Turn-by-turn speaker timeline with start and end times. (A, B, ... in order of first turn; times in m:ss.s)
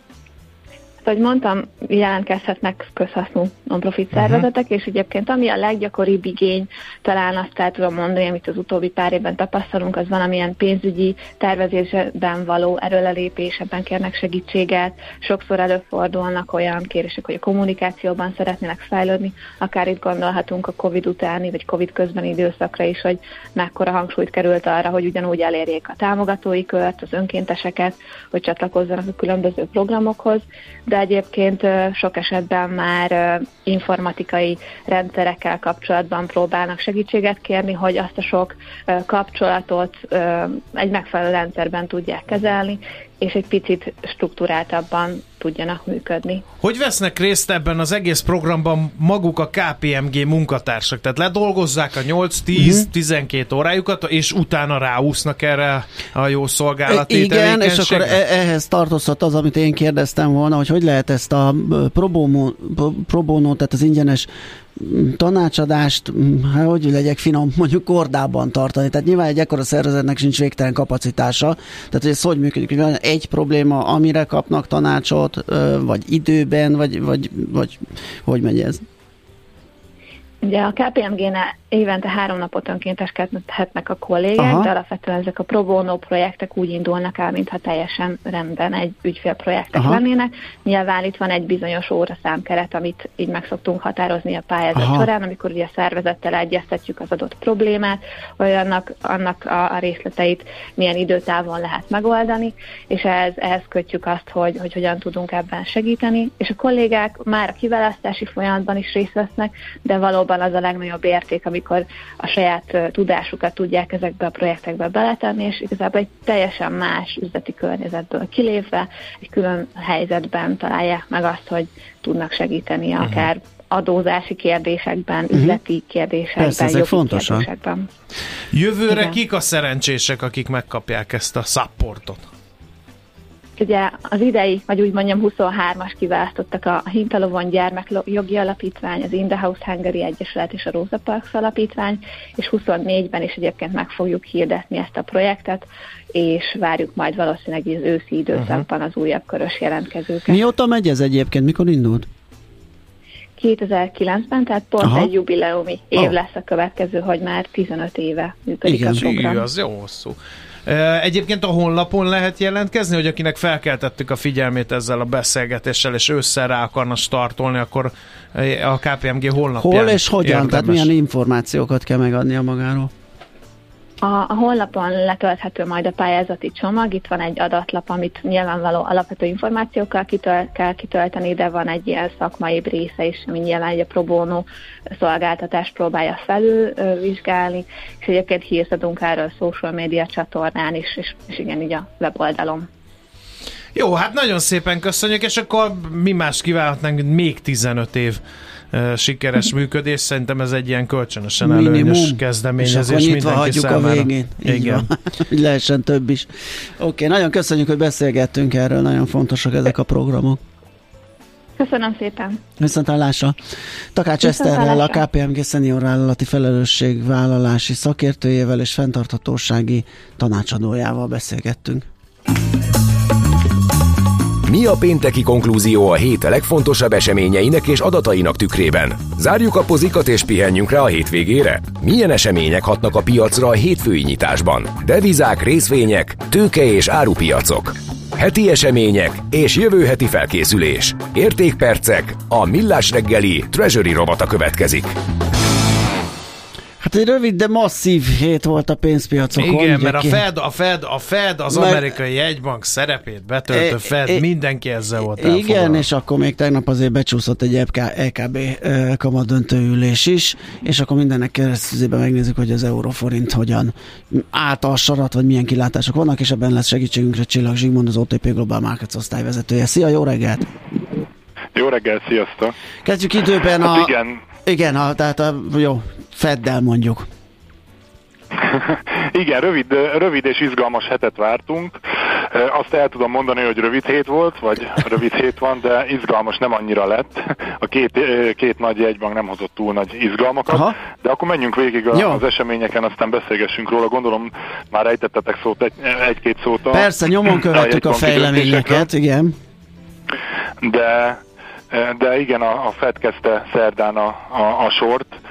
0:01.0-0:46.4 A
0:04.1-0:04.4 B
0:46.6-0:58.2 B
0:52.5-0:52.9 C
0:56.9-1:18.8 C
1:20.4-2:07.9 A
1:24.4-1:24.7 C
1:29.7-1:30.0 C
1:34.7-1:35.1 C
2:03.0-2:03.3 B
2:05.3-2:05.6 C
2:06.4-2:07.5 C
2:08.5-2:12.2 B
2:08.9-2:09.2 A
2:13.6-2:30.4 A
2:28.3-2:28.6 B
2:30.3-2:32.1 C
2:33.4-2:39.4 A
2:34.8-2:35.1 C
2:38.6-2:39.1 C
2:39.0-2:50.9 B
2:49.6-2:52.9 C
2:54.0-3:04.4 A
3:05.0-3:12.7 A
3:13.7-3:18.2 B
3:18.7-3:24.9 B
3:21.4-3:30.4 C
3:31.6-3:32.4 A
3:32.6-3:33.4 C
3:33.9-3:41.8 C
3:34.2-3:35.0 A
3:44.4-4:04.9 D
4:06.8-4:10.2 C
4:09.4-4:15.8 B
4:11.5-4:11.9 C
4:13.5-4:14.2 C
4:15.2-4:30.5 C
4:31.5-4:32.5 E
4:32.8-4:33.9 C
4:33.6-4:34.2 E
4:34.4-4:37.1 C
4:38.4-4:41.8 E
4:42.3-4:58.9 E
4:50.5-4:50.7 C
4:51.9-4:52.2 C
4:56.7-4:59.3 C
5:00.6-5:05.1 E